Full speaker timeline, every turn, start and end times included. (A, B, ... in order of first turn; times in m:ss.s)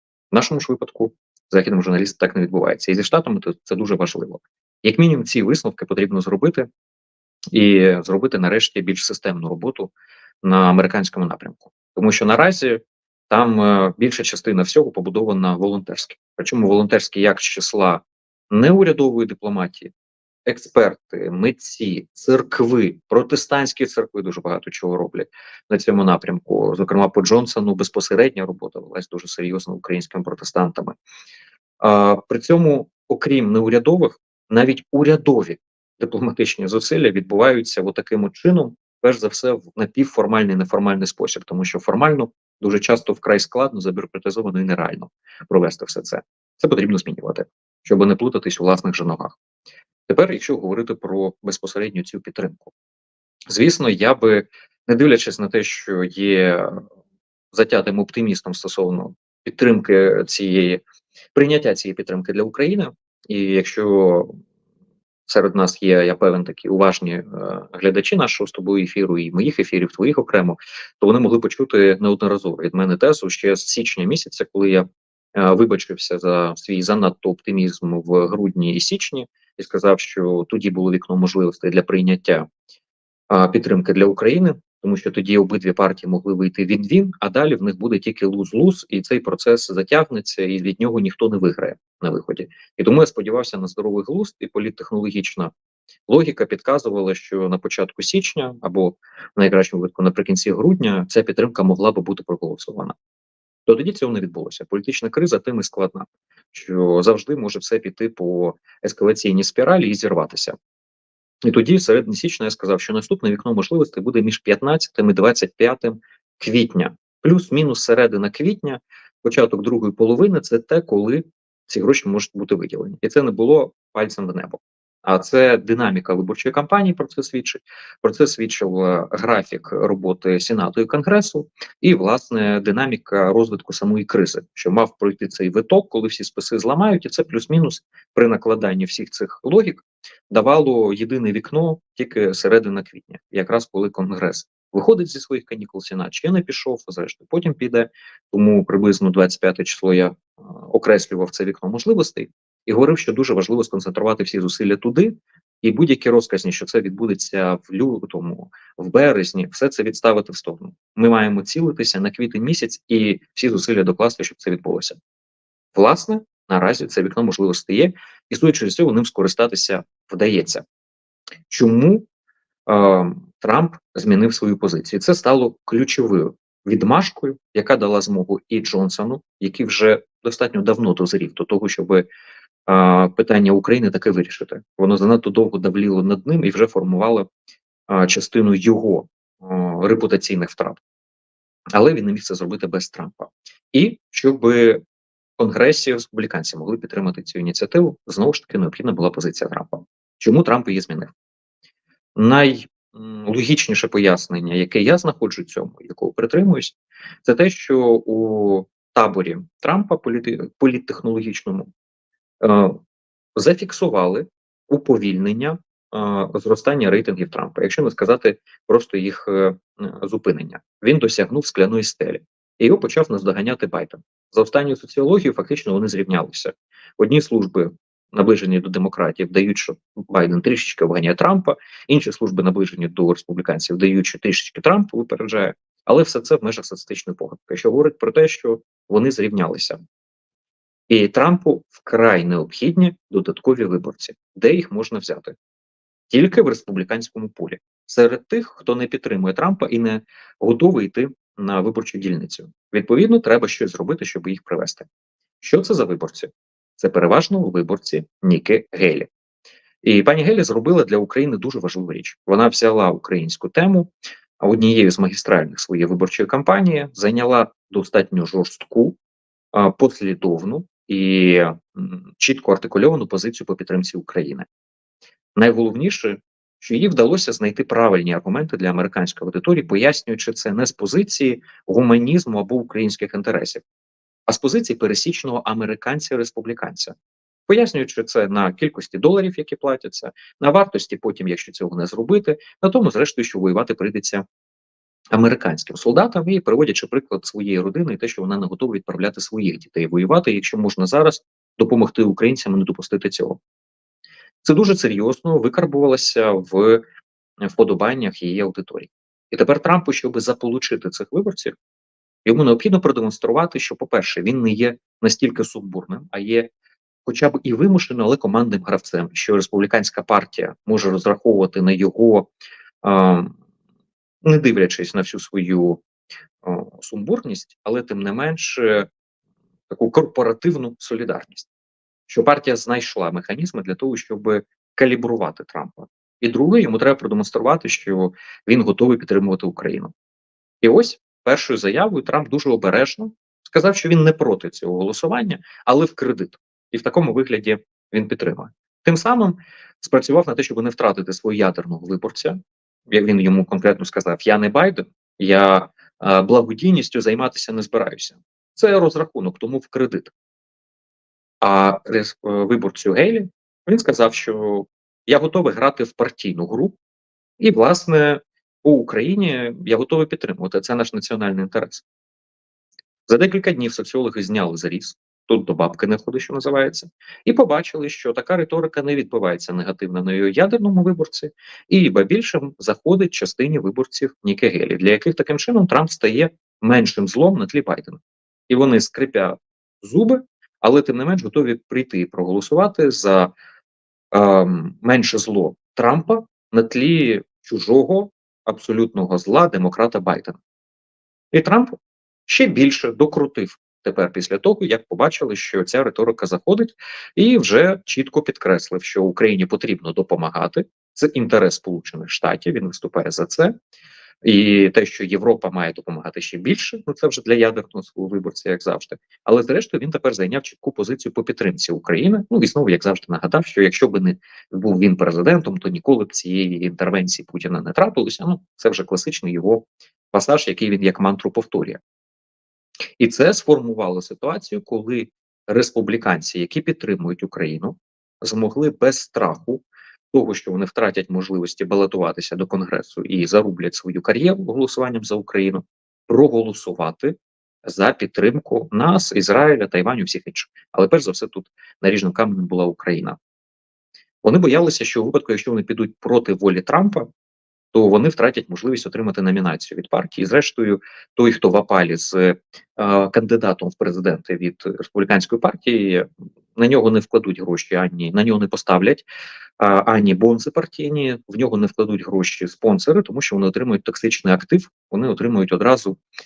0:00.3-0:06.7 A
0:07.5-0:09.9 A
0:10.4-0:19.9 A
0:20.4-0:31.0 A
0:31.8-0:49.4 A
0:50.1-0:52.7 A
0:53.5-0:56.8 A
0:57.5-1:00.8 A
1:01.3-1:04.4 A
1:05.3-1:22.5 A
1:23.3-1:35.5 A
1:36.1-1:43.0 A
1:43.6-1:50.6 A
1:51.4-2:45.0 A
2:45.7-2:50.6 A
2:51.5-2:52.0 A
2:52.6-3:02.0 A
3:02.6-3:07.3 A
3:07.9-3:10.8 A
3:11.7-3:14.8 A
3:15.4-3:21.1 A
3:22.2-3:31.7 A
3:32.4-3:32.8 A
3:33.4-3:59.8 A
4:00.9-4:05.3 A
4:06.1-4:14.9 A
4:15.4-4:19.1 A
4:19.8-4:29.0 A
4:29.5-4:34.4 A
4:35.4-4:43.6 A
4:44.3-4:46.9 A
4:47.5-4:54.2 A
4:55.1-5:03.4 A
5:04.4-5:06.8 A
5:07.4-5:11.6 A
5:12.2-5:16.5 A
5:17.0-5:22.3 A
5:22.8-5:23.3 A
5:24.2-5:25.8 A
5:26.4-5:28.9 A
5:29.7-5:31.5 A
5:32.1-5:39.9 A
5:40.6-6:00.1 A
6:01.4-6:06.7 A
6:07.4-6:11.8 A
6:13.1-6:33.3 A
6:34.1-6:40.4 A
6:41.3-6:53.5 A
6:54.2-7:11.8 A
7:13.0-7:33.2 A
7:34.2-7:37.1 A
7:37.7-7:49.0 A
7:49.6-7:56.0 A